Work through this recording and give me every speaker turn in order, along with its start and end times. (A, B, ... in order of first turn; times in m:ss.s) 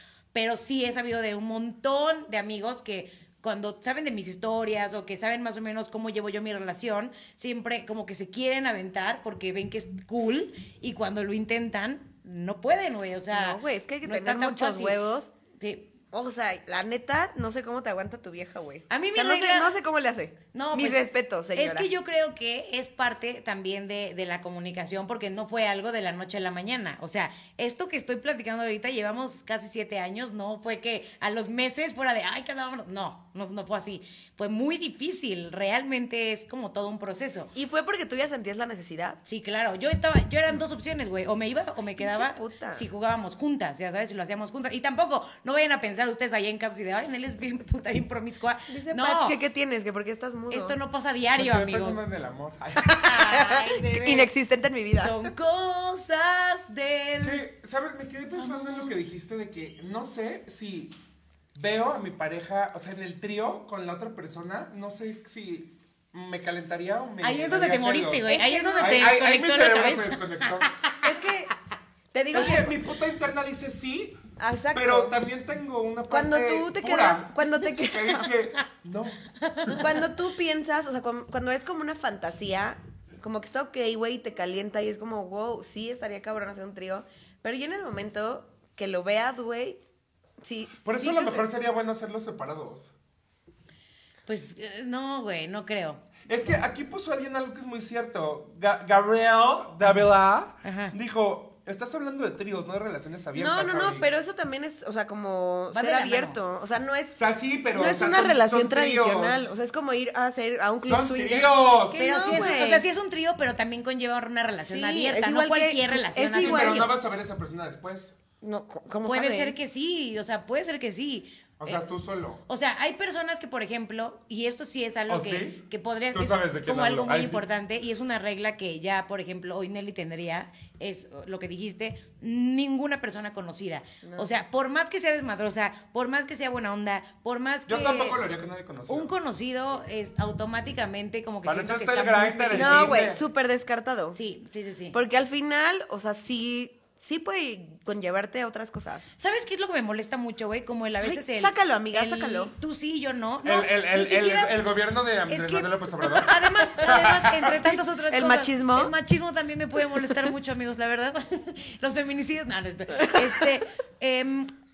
0:00.3-0:15.0 A
0:13.3-0:15.3 B
0:15.6-0:15.9 A
0:16.1-0:21.9 B
0:18.9-0:19.7 A
0:20.5-0:21.0 A
0:21.5-0:37.5 A
0:37.6-0:39.2 B
0:39.2-0:49.4 A
0:42.0-0:42.9 B
0:48.7-0:50.8 B
0:50.5-0:52.0 A
0:51.4-0:53.0 C
0:52.8-0:55.3 B
0:53.0-0:54.3 A
0:54.9-0:57.4 A
0:57.2-1:01.0 C
0:58.4-0:58.9 A
1:01.5-1:10.7 C
1:07.2-1:11.0 A
1:08.3-1:09.1 B
1:11.0-1:11.5 B
1:12.1-1:12.8 B
1:12.3-1:14.2 C
1:14.4-1:15.2 B
1:14.7-1:19.2 C
1:16.1-1:18.3 B
1:19.4-1:19.9 A
1:19.7-1:29.8 B
1:30.4-1:31.5 B
1:30.8-1:32.9 C
1:34.3-1:36.0 A
1:36.3-1:44.1 C
1:40.6-1:41.0 A
1:43.4-1:47.2 B
1:45.7-1:46.4 A
1:47.1-1:49.5 C
1:47.7-1:52.9 B
1:50.8-1:52.1 C
1:52.0-1:56.9 A
1:54.7-1:56.9 B
1:56.4-1:58.1 C
1:58.4-1:59.6 B
1:59.1-2:01.8 A
2:01.6-2:02.4 C
2:02.4-2:18.2 A
2:05.1-2:05.6 C
2:06.1-2:07.4 C
2:14.0-2:14.3 B
2:17.7-2:19.1 C
2:18.9-2:23.1 A
2:21.4-2:23.2 C
2:22.5-2:24.2 B
2:24.1-2:25.0 A
2:24.9-2:29.1 B
2:29.2-2:34.6 A
2:31.0-2:32.5 B
2:33.4-2:37.6 C
2:35.3-2:44.5 A
2:36.2-2:36.9 B
2:37.4-2:38.9 B
2:43.0-2:43.6 B